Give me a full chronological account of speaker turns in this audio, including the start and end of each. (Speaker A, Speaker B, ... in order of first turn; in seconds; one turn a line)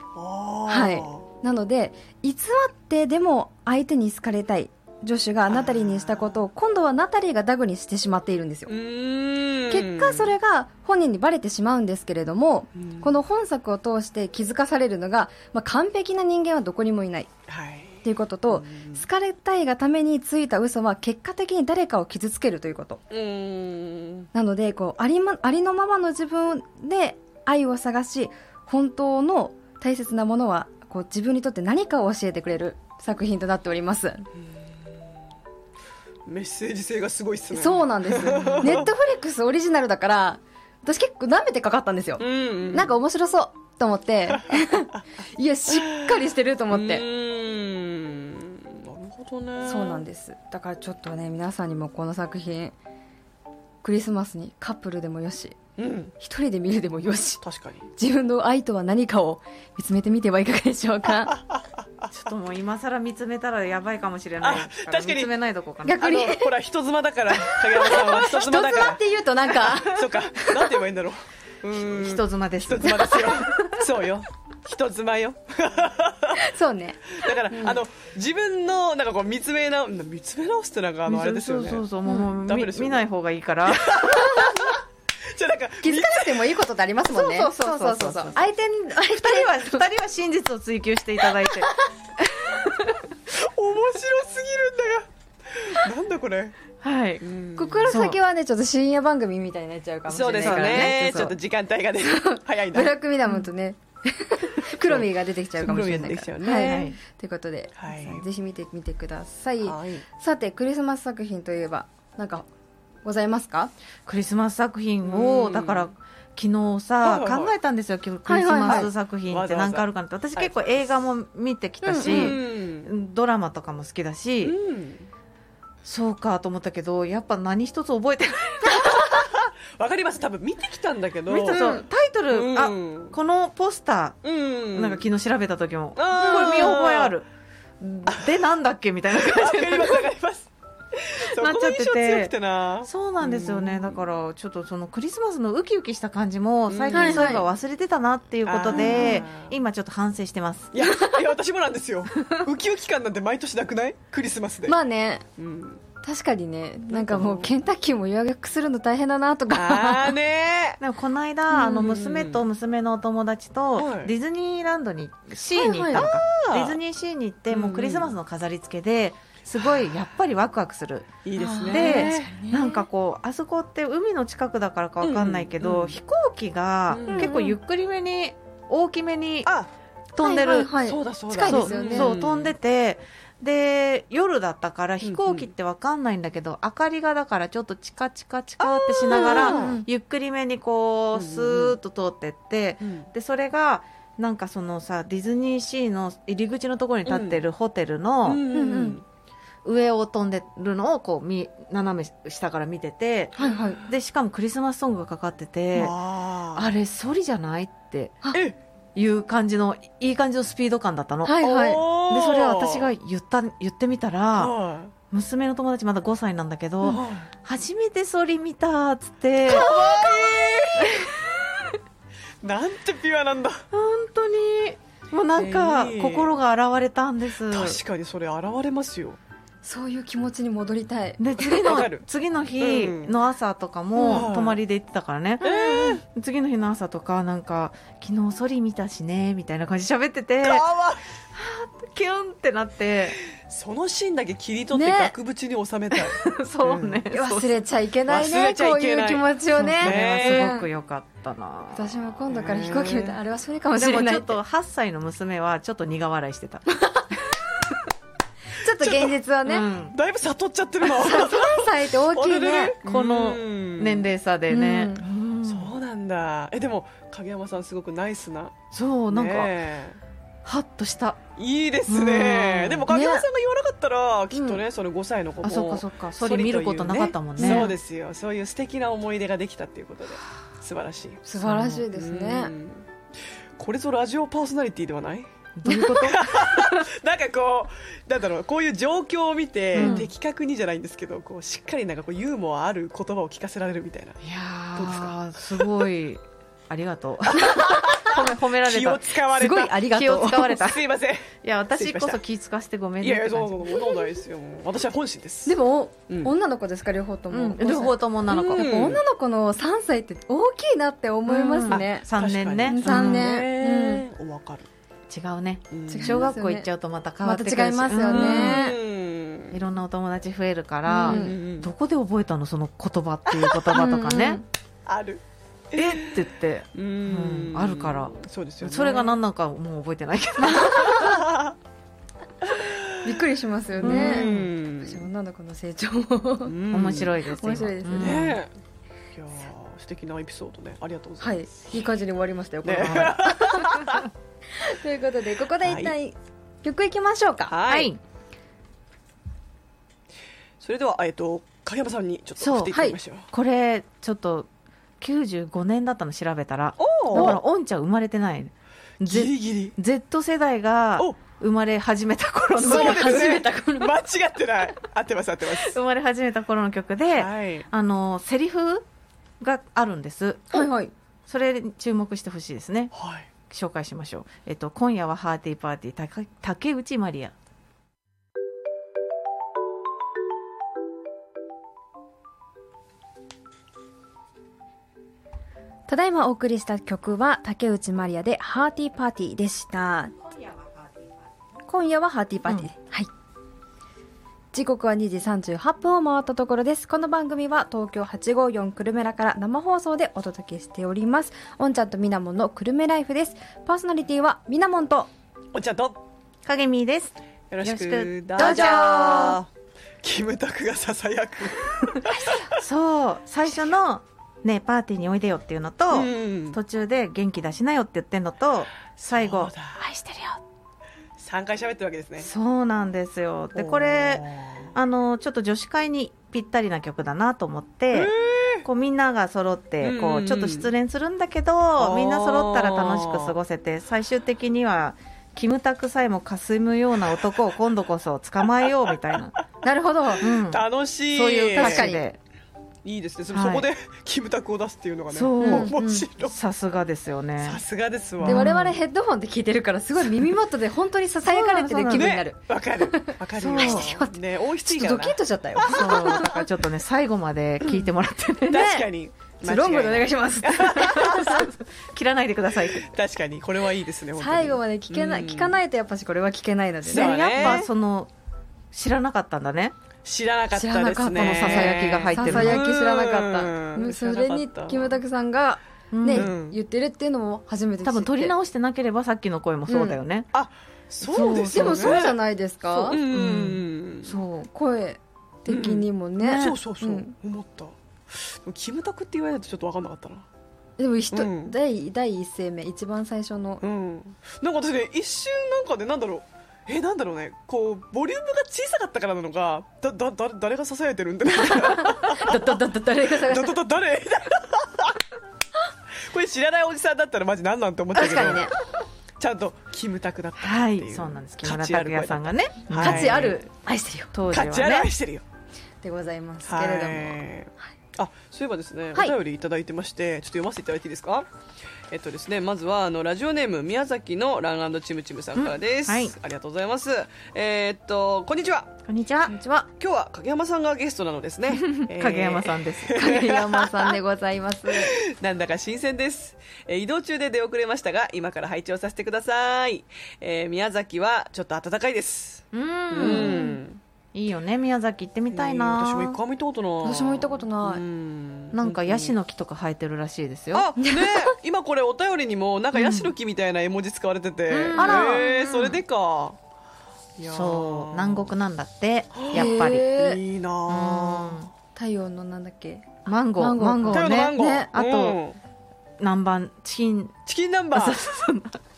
Speaker A: 0.1-1.2
Speaker B: 0.7-8.7
Speaker A: 5.5-6.4
Speaker A: 8.7-10.3
Speaker B: 9.7-17.3
Speaker A: 12.8-13.2
Speaker A: 17.5-19.0
Speaker B: 18.0-23.0
Speaker A: 23.1-24.3
Speaker B: 24.3-34.2
Speaker A: 36.2-38.9
Speaker B: 37.5-47.0
Speaker A: 42.2-42.9
Speaker A: 45.7-46.1
Speaker A: 46.7-50.0
Speaker B: 49.6-52.7
Speaker B: 53.8-55.6
Speaker A: 55.8-56.1
Speaker B: 56.2-57.4
Speaker A: 57.4-57.9
Speaker B: 58.0-61.4
Speaker A: 61.5-62.1
Speaker C: 62.1-66.0
Speaker A: 64.4-65.3
Speaker B: 65.8-66.5
Speaker A: 65.9-76.4
Speaker B: 67.5-70.7
Speaker C: 71.7-73.6
Speaker B: 72.8-73.5
Speaker B: 76.3-77.8
Speaker A: 77.2-83.0
Speaker C: 81.0-84.2
Speaker A: 83.7-86.6
Speaker B: 84.1-84.7
Speaker B: 85.8-89.8
Speaker C: 87.1-93.0
Speaker A: 93.3-96.6
Speaker C: 96.8-97.2
Speaker A: 97.2-98.0
Speaker B: 97.5-101.3
Speaker C: 97.9-98.2
Speaker A: 100.1-102.9
Speaker C: 100.4-101.3
Speaker B: 102.1-112.5
Speaker A: 104.8-105.1
Speaker A: 105.6-106.9
Speaker C: 105.7-106.0
Speaker C: 106.6-107.0
Speaker A: 107.8-108.2
Speaker A: 109.6-110.0
Speaker B: 113.0-113.7
Speaker C: 114.0-124.5
Speaker A: 115.0-115.9
Speaker A: 117.0-117.5
Speaker B: 118.2-118.9
Speaker A: 118.7-120.6
Speaker B: 121.8-122.4
Speaker A: 122.0-122.9
Speaker A: 124.4-125.1
Speaker C: 125.8-129.0
Speaker B: 128.7-129.2
Speaker A: 128.9-133.1
Speaker C: 131.3-134.2
Speaker B: 131.5-131.8
Speaker A: 134.2-135.0
Speaker C: 134.7-137.3
Speaker A: 135.9-137.1
Speaker C: 137.8-140.0
Speaker A: 138.1-138.3
Speaker A: 139.1-144.0
Speaker C: 141.2-150.7
Speaker A: 146.7-147.4
Speaker B: 146.9-147.4
Speaker A: 148.4-149.5
Speaker B: 148.7-149.2
Speaker A: 150.7-154.7
Speaker B: 150.8-151.2
Speaker B: 154.7-155.2
Speaker A: 155.4-155.8
Speaker B: 156.0-160.2
Speaker A: 156.9-157.5
Speaker A: 159.5-160.8
Speaker C: 160.8-179.5
Speaker A: 161.5-162.4
Speaker A: 163.8-164.1
Speaker B: 165.5-166.0
Speaker A: 165.9-166.8
Speaker A: 167.5-168.1
Speaker A: 169.6-169.9
Speaker A: 171.2-172.3
Speaker B: 171.4-172.8
Speaker A: 175.0-176.0
Speaker A: 176.9-177.3
Speaker B: 177.1-177.6
Speaker C: 180.1-180.7
Speaker B: 180.2-182.2
Speaker A: 180.7-182.5
Speaker C: 181.4-198.4
Speaker A: 185.0-185.5
Speaker A: 188.6-189.8
Speaker B: 189.1-189.9
Speaker A: 191.1-191.8
Speaker A: 192.8-193.1
Speaker A: 197.1-197.4
Speaker A: 198.2-199.0
Speaker B: 198.5-199.0
Speaker C: 199.6-203.3
Speaker B: 203.4-203.8
Speaker C: 203.8-205.9
Speaker A: 205.7-206.7
Speaker C: 206.5-208.2
Speaker C: 208.9-214.5
Speaker B: 211.2-211.8
Speaker A: 211.4-212.9
Speaker A: 214.4-214.9
Speaker C: 215.1-219.9
Speaker A: 216.8-217.3
Speaker A: 219.5-221.3
Speaker C: 220.8-221.1
Speaker A: 222.4-223.6
Speaker C: 223.7-227.8
Speaker A: 225.4-226.3
Speaker A: 227.5-229.2
Speaker B: 229.6-231.8
Speaker C: 231.2-240.6
Speaker A: 231.6-232.0
Speaker A: 232.6-233.2
Speaker B: 233.9-234.3
Speaker A: 234.0-234.6
Speaker A: 235.4-236.0
Speaker B: 235.4-236.0
Speaker A: 240.4-241.0
Speaker C: 241.3-243.2
Speaker A: 243.4-247.0
Speaker B: 244.7-245.1
Speaker C: 245.9-247.6
Speaker B: 247.1-250.7
Speaker A: 248.1-249.3
Speaker C: 249.6-252.1
Speaker A: 249.8-250.5
Speaker B: 251.7-254.4
Speaker A: 252.3-253.2
Speaker C: 253.7-256.6
Speaker B: 256.7-257.2
Speaker B: 258.5-259.7
Speaker A: 258.8-259.1
Speaker C: 259.4-259.9
Speaker A: 259.9-264.1
Speaker B: 260.8-262.8
Speaker C: 262.8-265.7
Speaker B: 264.5-265.0
Speaker A: 265.4-268.6
Speaker C: 268.7-269.5
Speaker A: 269.1-270.0
Speaker C: 270.4-271.2
Speaker A: 271.4-281.2
Speaker C: 271.9-272.9
Speaker B: 272.9-273.3
Speaker B: 274.3-274.6
Speaker C: 275.4-277.7
Speaker B: 277.4-277.8
Speaker B: 281.2-282.5
Speaker C: 281.4-281.8
Speaker A: 281.9-282.9
Speaker A: 283.6-285.3
Speaker C: 285.6-286.5
Speaker B: 285.7-286.0
Speaker A: 286.0-294.2
Speaker C: 289.7-290.1
Speaker B: 289.8-290.1
Speaker C: 294.2-299.1
Speaker A: 294.7-295.8
Speaker A: 297.3-299.8
Speaker B: 299.3-300.6
Speaker C: 299.9-300.9
Speaker A: 300.3-302.2
Speaker C: 301.4-303.7
Speaker A: 303.0-305.5
Speaker B: 305.4-308.0
Speaker C: 307.3-308.7
Speaker A: 308.3-309.0
Speaker B: 308.5-312.1
Speaker C: 311.3-313.3
Speaker A: 311.6-314.7
Speaker B: 312.7-314.0
Speaker C: 315.1-318.7
Speaker A: 315.7-316.3
Speaker B: 315.9-316.7
Speaker B: 317.2-318.8
Speaker A: 318.1-319.6
Speaker C: 319.5-324.4
Speaker A: 320.9-321.7
Speaker B: 320.9-321.4
Speaker B: 323.7-324.4
Speaker A: 324.9-326.2
Speaker C: 325.7-331.2
Speaker A: 326.7-329.2
Speaker B: 330.5-331.2
Speaker A: 330.6-331.6
Speaker A: 332.4-333.1
Speaker B: 333.0-336.6
Speaker A: 333.8-335.1
Speaker C: 333.8-334.5
Speaker A: 336.4-337.1
Speaker C: 336.7-338.4
Speaker B: 337.3-338.3
Speaker A: 338.0-338.5
Speaker A: 339.1-341.4
Speaker B: 341.2-343.9
Speaker A: 342.6-344.1
Speaker C: 342.8-343.1
Speaker B: 344.6-347.5
Speaker A: 345.6-345.9
Speaker A: 347.5-347.9
Speaker C: 347.7-348.0
Speaker A: 350.6-353.3
Speaker C: 352.4-352.8
Speaker C: 353.3-354.5
Speaker C: 355.0-363.4
Speaker A: 356.8-357.4
Speaker B: 357.1-357.4
Speaker A: 359.0-359.7
Speaker B: 362.6-363.9
Speaker A: 362.6-365.8
Speaker C: 365.5-368.8
Speaker A: 367.1-367.7
Speaker C: 369.4-370.7
Speaker B: 370.5-370.9
Speaker C: 371.3-372.9
Speaker A: 372.9-373.3
Speaker C: 373.5-377.3
Speaker B: 385.9-390.1
Speaker C: 390.3-391.1
Speaker B: 391.6-393.1
Speaker B: 394.5-405.1
Speaker A: 405.5-406.0
Speaker C: 406.4-409.4
Speaker A: 407.5-409.5
Speaker B: 408.4-409.4
Speaker A: 410.0-412.6
Speaker B: 412.1-412.4
Speaker C: 412.5-420.4
Speaker A: 415.9-416.6
Speaker A: 419.0-419.8
Speaker A: 421.2-422.3
Speaker C: 422.2-428.1
Speaker A: 423.5-424.7
Speaker A: 427.9-428.6
Speaker C: 428.6-439.3
Speaker A: 429.8-430.7
Speaker A: 431.8-433.4
Speaker B: 439.6-440.3
Speaker C: 440.2-442.2
Speaker A: 440.2-441.9
Speaker B: 441.5-442.0
Speaker A: 442.8-446.3
Speaker C: 443.3-443.7
Speaker C: 445.1-447.6
Speaker B: 445.4-446.1
Speaker A: 447.4-448.5
Speaker C: 448.2-448.8
Speaker B: 448.2-454.1
Speaker C: 451.3-452.2
Speaker A: 451.9-456.4
Speaker C: 453.4-453.9
Speaker B: 454.6-456.4
Speaker C: 455.6-458.7
Speaker A: 457.6-457.9
Speaker A: 458.5-461.4
Speaker B: 458.5-458.9
Speaker B: 459.4-461.5
Speaker C: 461.1-462.9
Speaker A: 462.8-465.6
Speaker B: 464.2-467.6
Speaker A: 466.9-467.6
Speaker C: 466.9-468.1
Speaker C: 468.7-469.7
Speaker A: 470.0-475.0
Speaker B: 470.5-478.3
Speaker C: 471.1-472.6
Speaker C: 475.9-476.3
Speaker A: 476.1-476.6
Speaker C: 477.8-480.3
Speaker B: 479.7-480.0
Speaker A: 480.3-482.1
Speaker C: 481.0-482.1
Speaker B: 481.5-483.0
Speaker C: 482.7-484.5
Speaker A: 482.9-484.1
Speaker B: 484.5-487.1
Speaker A: 485.5-490.2
Speaker C: 486.2-486.6
Speaker B: 490.8-493.6
Speaker A: 491.1-491.5
Speaker A: 493.6-502.6
Speaker B: 501.3-503.6
Speaker A: 503.1-505.0
Speaker A: 506.1-508.5
Speaker B: 507.9-508.6
Speaker A: 509.2-513.4
Speaker C: 510.4-513.4
Speaker B: 512.8-514.1
Speaker C: 514.1-514.9
Speaker A: 514.3-515.2
Speaker B: 515.8-517.2
Speaker A: 516.5-521.2
Speaker A: 521.9-528.8
Speaker C: 525.3-526.1
Speaker C: 528.9-529.3
Speaker B: 529.3-529.7
Speaker A: 529.8-533.9
Speaker C: 531.7-533.1
Speaker B: 532.9-535.0
Speaker A: 534.7-543.8
Speaker C: 542.5-543.4
Speaker B: 543.0-543.6
Speaker C: 544.1-546.2
Speaker A: 545.3-549.1
Speaker B: 546.8-547.8
Speaker C: 548.5-550.7
Speaker A: 550.5-556.4
Speaker B: 550.8-551.3
Speaker C: 552.7-553.1
Speaker C: 554.5-555.8
Speaker B: 554.8-555.6
Speaker A: 557.2-558.3
Speaker C: 557.2-559.9
Speaker A: 559.1-561.5
Speaker B: 559.3-560.2
Speaker C: 560.7-561.5
Speaker B: 561.7-564.7
Speaker C: 563.0-565.2
Speaker A: 563.9-565.4
Speaker C: 566.0-567.1
Speaker A: 567.2-568.0
Speaker C: 567.7-568.6